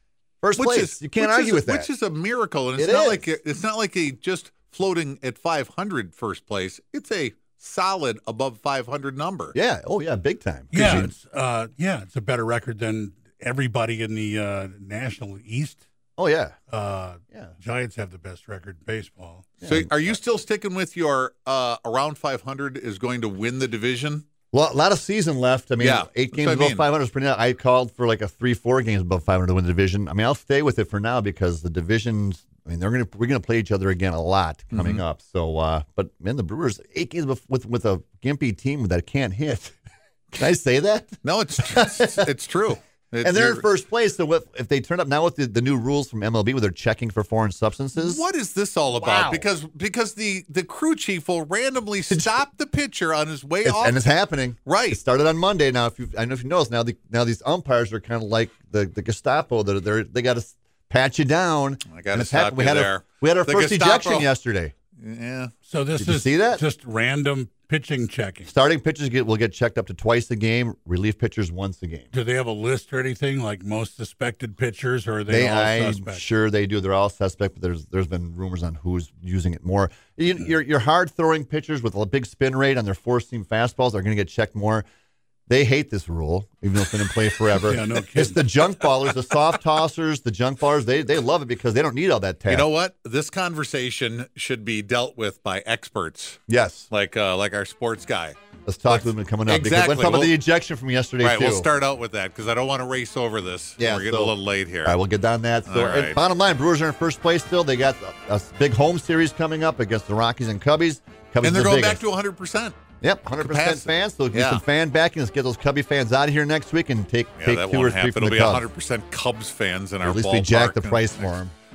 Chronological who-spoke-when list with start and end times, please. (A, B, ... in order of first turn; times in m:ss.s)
0:00.4-0:01.9 A
0:00.6-0:09.6 B
0:02.8-0:03.3 A
0:09.5-0:11.1 A
0:10.7-0:15.8 C
0:16.2-0:16.6 A
0:16.7-0:19.5 C
0:19.6-0:20.2 A
0:19.6-0:24.3 B
0:24.5-0:39.8 A
0:25.8-0:26.9 B
0:34.7-0:35.0 B
0:40.3-0:42.3 A
0:41.2-0:43.7 B
0:43.2-0:48.2 A
0:48.0-0:54.0 B
0:49.0-0:49.5 A
0:52.1-0:52.4 A
0:53.6-1:04.7 A
0:54.6-0:55.0 B
1:01.9-1:04.3 B
1:05.0-1:05.5 B
1:05.7-1:08.5 C
1:06.0-1:06.6 A
1:08.4-1:12.1 A
1:12.1-1:16.3 C
1:15.3-1:24.8 A
1:25.5-1:32.7 A
1:27.6-1:28.4 C
1:32.5-1:38.4 B
1:36.5-1:36.9 A
1:38.7-1:41.7 A
1:38.9-1:40.4 B
1:41.2-1:45.0 B
1:43.8-1:52.0 A
1:45.7-1:46.2 B
1:51.4-1:52.8 B
1:53.0-1:58.6 A
1:53.4-1:54.6 B
1:57.4-2:01.4 B
2:00.0-2:01.6 A